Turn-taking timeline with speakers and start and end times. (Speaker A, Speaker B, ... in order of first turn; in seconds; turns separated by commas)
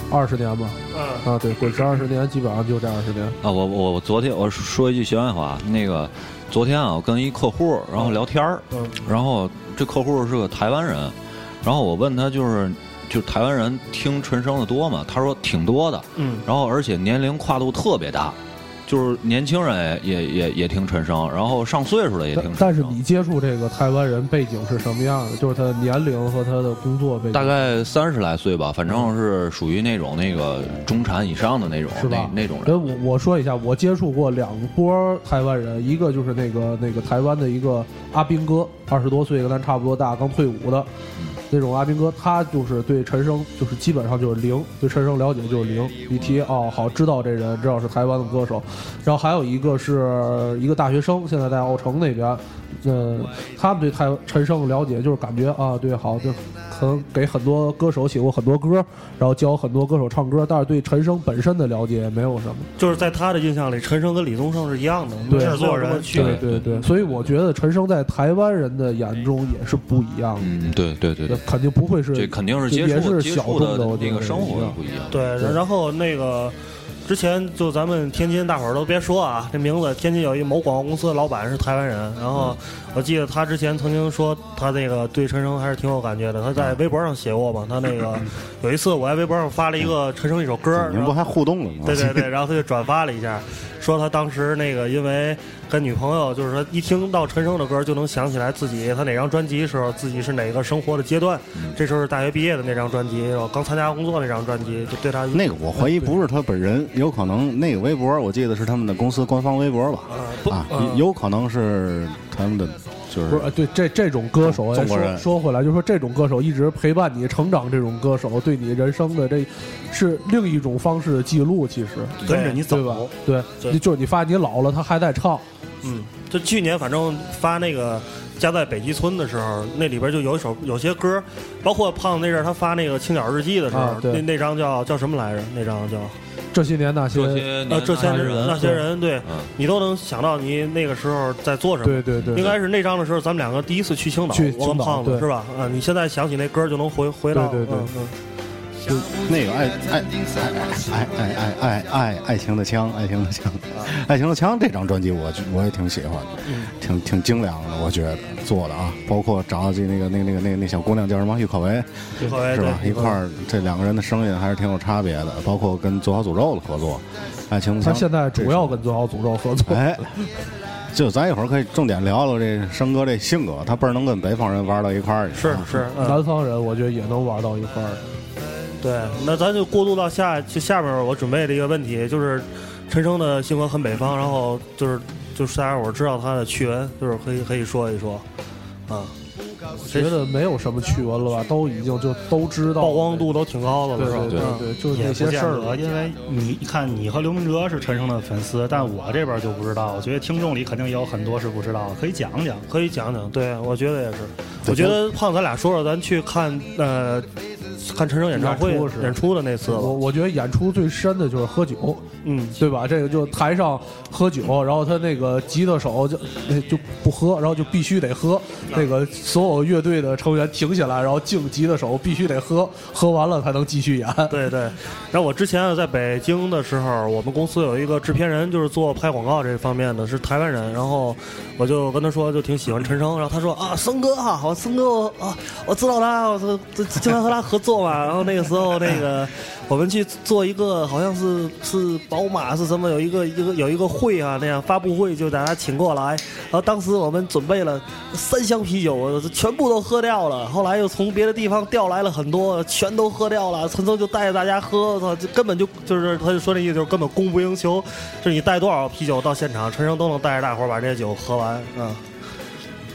Speaker A: 0.1-3.4, Speaker B: 0.9-1.2, Speaker C: 3.4-23.0, Speaker B: 8.7-9.0, Speaker B: 16.1-16.4, Speaker A: 22.3-27.5, Speaker C: 27.3-32.9, Speaker A: 31.9-40.9, Speaker A: 41.5-62.7, Speaker B: 62.8-66.9, Speaker A: 65.3-70.5, Speaker C: 66.1-67.3, Speaker C: 70.4-71.4, Speaker A: 71.3-74.8, Speaker C: 72.1-75.3, Speaker B: 75.1-91.2, Speaker D: 90.7-92.3, Speaker B: 91.8-105.5, Speaker D: 105.3-113.5, Speaker A: 105.8-106.1, Speaker B: 110.1-111.0, Speaker A: 113.3-125.4, Speaker D: 114.4-115.2, Speaker E: 122.2-123.1, Speaker B: 122.2-122.8, Speaker B: 125.8-136.2, Speaker A: 133.7-134.2, Speaker A: 136.5-138.8, Speaker C: 137.1-139.5, Speaker B: 137.7-148.1, Speaker A: 141.8-142.5, Speaker C: 142.2-142.6, Speaker A: 144.3-145.3, Speaker A: 147.3-147.9, Speaker D: 149.1-168.8, Speaker B: 156.4-156.7, Speaker B: 162.2-163.1, Speaker A: 167.8-170.2, Speaker D: 169.7-170.2, Speaker D: 170.9-175.9, Speaker B: 175.3-176.2, Speaker A: 176.0-178.1, Speaker B: 178.8-188.2, Speaker B: 188.9-189.1, Speaker A: 189.8-193.3, Speaker B: 192.8-195.6, Speaker A: 193.9-195.8, Speaker C: 194.0-194.5, Speaker E: 194.9-202.7, Speaker B: 202.7-207.3, Speaker D: 204.6-205.1, Speaker B: 207.8-210.0, Speaker A: 208.3-212.0, Speaker B: 212.2-212.6, Speaker A: 212.6-224.5, Speaker B: 224.3-262.0